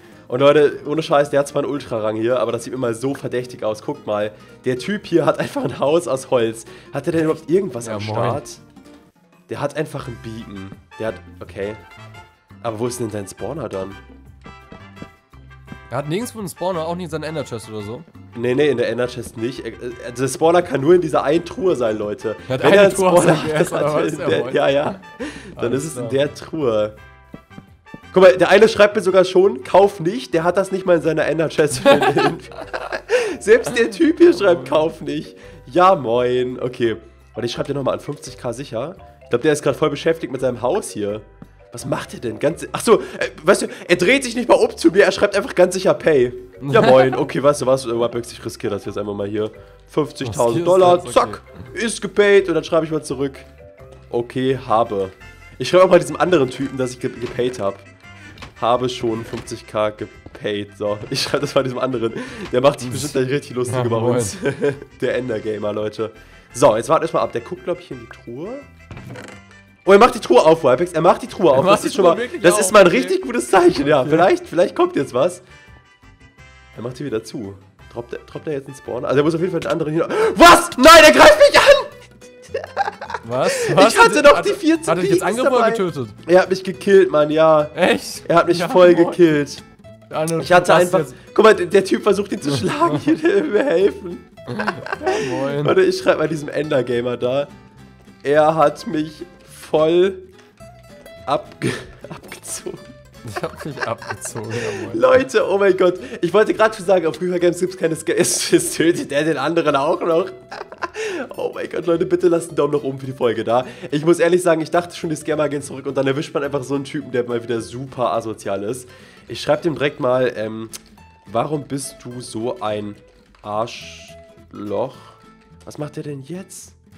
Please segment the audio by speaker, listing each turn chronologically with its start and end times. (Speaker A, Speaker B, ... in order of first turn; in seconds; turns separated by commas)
Speaker A: 0.3-8.6, Speaker B: 7.2-8.4, Speaker A: 9.5-11.8, Speaker A: 12.6-14.0, Speaker B: 15.9-18.1, Speaker A: 18.3-26.9, Speaker B: 22.5-24.9, Speaker B: 25.5-26.2, Speaker A: 28.1-53.5, Speaker B: 31.8-32.4, Speaker B: 33.8-34.8, Speaker B: 46.6-47.3, Speaker B: 50.2-51.4, Speaker A: 54.1-57.9, Speaker A: 58.6-68.6, Speaker B: 62.8-64.3, Speaker A: 69.8-75.4, Speaker B: 71.5-74.3, Speaker A: 76.7-89.6, Speaker B: 83.2-86.2, Speaker B: 87.7-89.3, Speaker B: 90.1-91.1, Speaker A: 90.4-97.5, Speaker B: 92.6-93.1, Speaker B: 94.5-95.8, Speaker A: 98.2-100.2, Speaker A: 101.3-102.9, Speaker B: 103.2-105.1, Speaker A: 104.6-120.7, Speaker A: 121.3-126.8